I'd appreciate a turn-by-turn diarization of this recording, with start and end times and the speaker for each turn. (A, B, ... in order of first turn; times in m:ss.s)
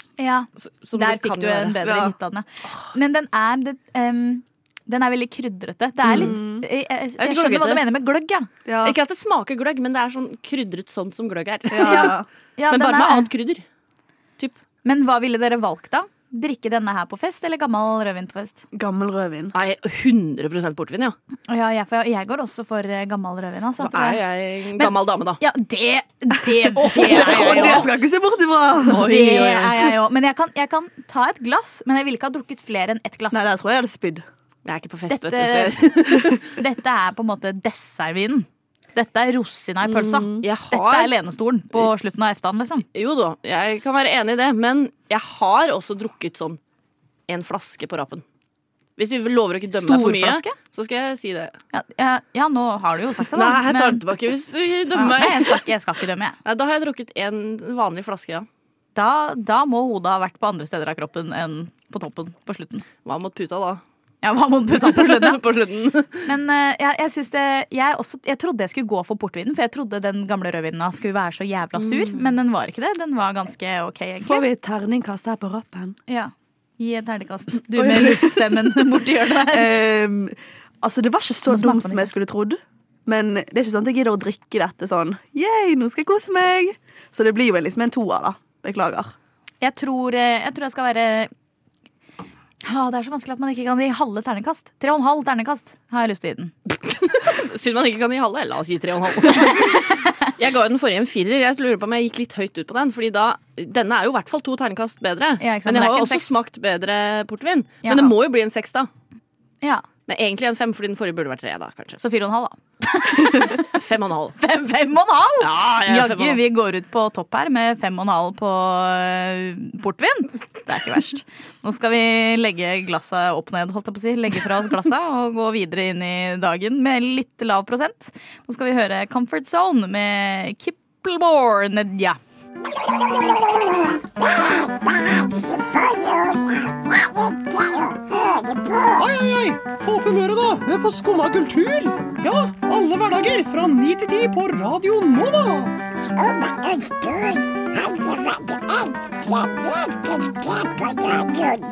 0:00.2-0:08.5 A
0:00.6-0:01.8 B
0:01.8-0:02.1 C
0:06.0-0:06.6 C
0:06.1-0:06.4 B
0:07.2-0:07.8 B
0:08.7-0:09.0 C
0:08.8-0:12.2 B
0:11.7-0:12.3 C
0:11.8-0:13.3 A
0:12.7-0:13.6 B
0:14.8-0:18.6 A
0:18.7-0:19.6 C
0:19.5-0:21.2 B
0:21.5-0:24.2 A
0:23.8-0:25.4 B
0:24.8-0:27.9 A
0:26.8-0:27.9 B
0:26.9-0:29.2 C
0:28.8-0:29.9 B
0:29.0-0:33.5 A
0:33.3-0:34.2 C
0:34.6-0:36.4 B
0:35.1-0:42.8 A
0:40.0-0:40.4 C
0:40.4-0:41.2 B
0:42.9-0:46.6 B
0:47.3-0:48.2 B
0:49.0-0:51.6 B
0:49.7-0:50.6 A
0:51.7-0:54.0 A
0:53.3-0:55.6 B
0:54.9-0:56.4 A
0:56.4-0:58.5 B
0:59.0-1:02.9 A
1:03.0-1:03.8 B
1:04.2-1:05.4 A
1:04.8-1:06.3 B
1:06.2-1:14.5 A
1:11.8-1:12.2 B
1:14.2-1:16.0 C
1:16.1-1:19.7 A
1:17.7-1:29.2 C
1:21.5-1:22.1 A
1:29.6-1:31.3 A
1:32.6-1:36.5 A
1:36.8-1:48.9 B
1:39.4-1:40.1 A
1:45.4-1:46.3 A
1:47.8-1:48.1 A
1:50.1-1:52.0 B
1:52.0-1:53.7 A
1:53.3-1:54.4 B
1:54.4-2:12.2 A
1:55.4-1:56.4 B
2:18.9-2:25.8 D